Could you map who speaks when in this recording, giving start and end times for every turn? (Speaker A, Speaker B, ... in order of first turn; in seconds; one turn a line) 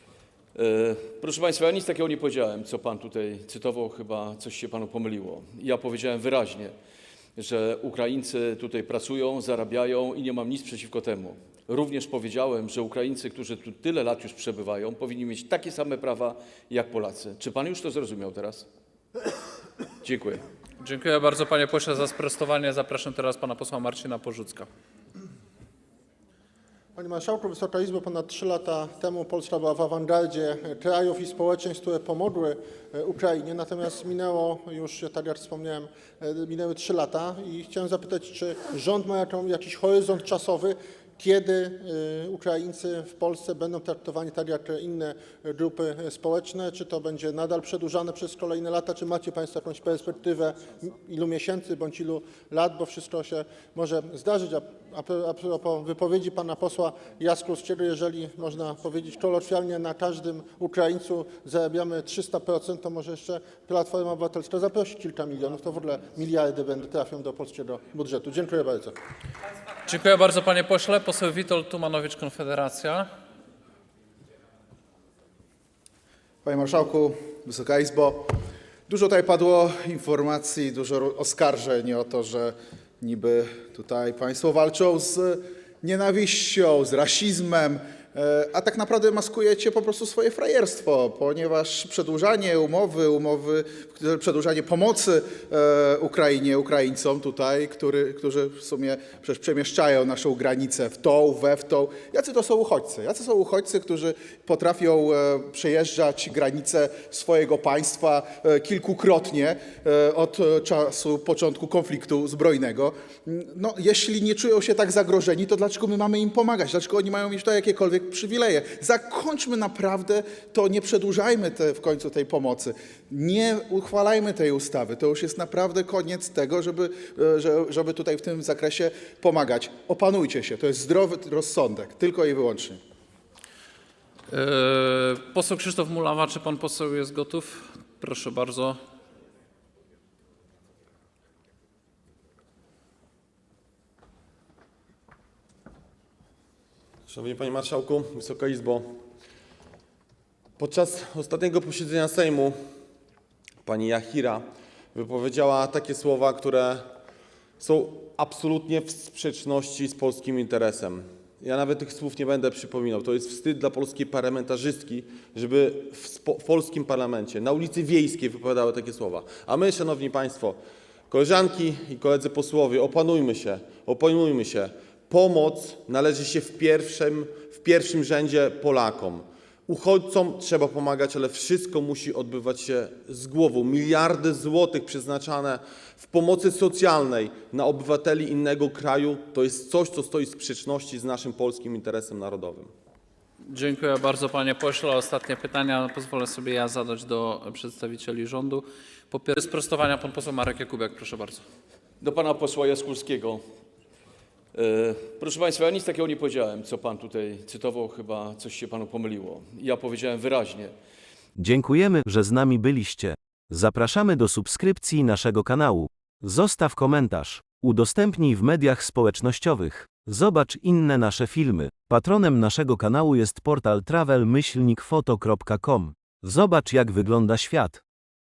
Speaker A: 0.5-6.7
Speaker A: 7.4-18.6
Speaker A: 20.0-20.4
Speaker B: 20.8-24.7
Speaker C: 27.0-69.0
Speaker B: 69.9-73.1
Speaker D: 76.4-78.3
Speaker D: 78.9-132.8
Speaker B: 134.3-138.8
Speaker E: 147.1-149.0
Speaker E: 150.6-152.6
Speaker E: 153.6-156.9
Speaker E: 157.6-170.6
Speaker E: 171.1-192.7
Speaker B: 193.5-201.4
Speaker A: 202.0-203.4
Speaker A: 204.5-210.7
Speaker F: 211.4-227.8